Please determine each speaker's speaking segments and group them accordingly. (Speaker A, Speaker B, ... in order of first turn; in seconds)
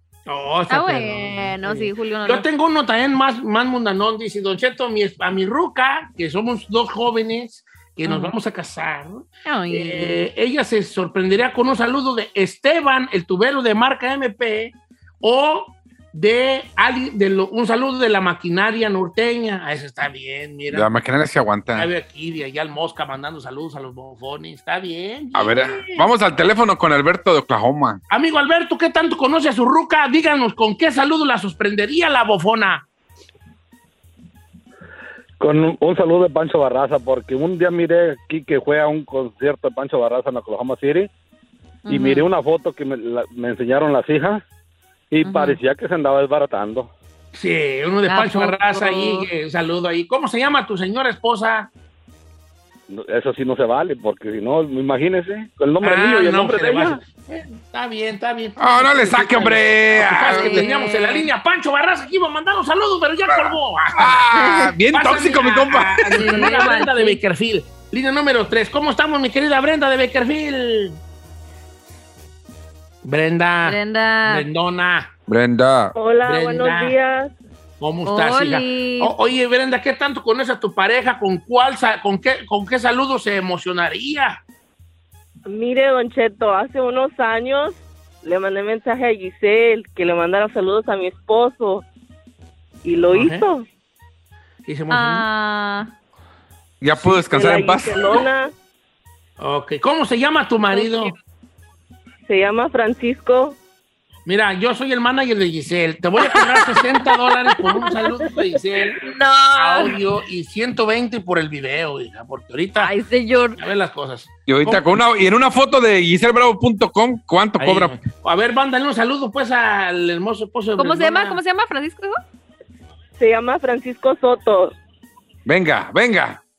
Speaker A: 0.3-20.9, 21.8-26.1, 28.1-32.9, 47.3-51.7, 55.8-64.3, 64.9-71.0, 73.0-75.1, 76.2-77.0, 77.8-84.4, 93.1-93.5, 94.7-95.2, 99.4-101.1, 104.2-109.0, 109.6-112.9, 113.6-114.9, 117.6-121.4
Speaker B: 0.7-2.5, 8.1-8.3, 9.5-10.2, 41.9-42.2, 45.2-45.6, 48.1-49.3, 60.2-61.3, 66.2-67.2, 73.6-74.5, 78.1-79.1, 94.9-95.9, 100.7-101.1, 106.2-108.1, 109.0-110.0, 112.8-113.6, 120.8-122.2
Speaker C: 20.7-21.9, 25.4-28.0, 58.6-60.7, 63.3-66.4, 75.3-75.9, 96.8-98.2, 114.5-117.9, 125.5-126.4
Speaker D: 35.4-41.1, 41.9-44.4, 45.1-46.9, 52.9-57.0
Speaker E: 76.0-77.3, 85.5-91.8, 92.8-93.6, 97.1-98.5, 102.3-103.6, 123.2-124.7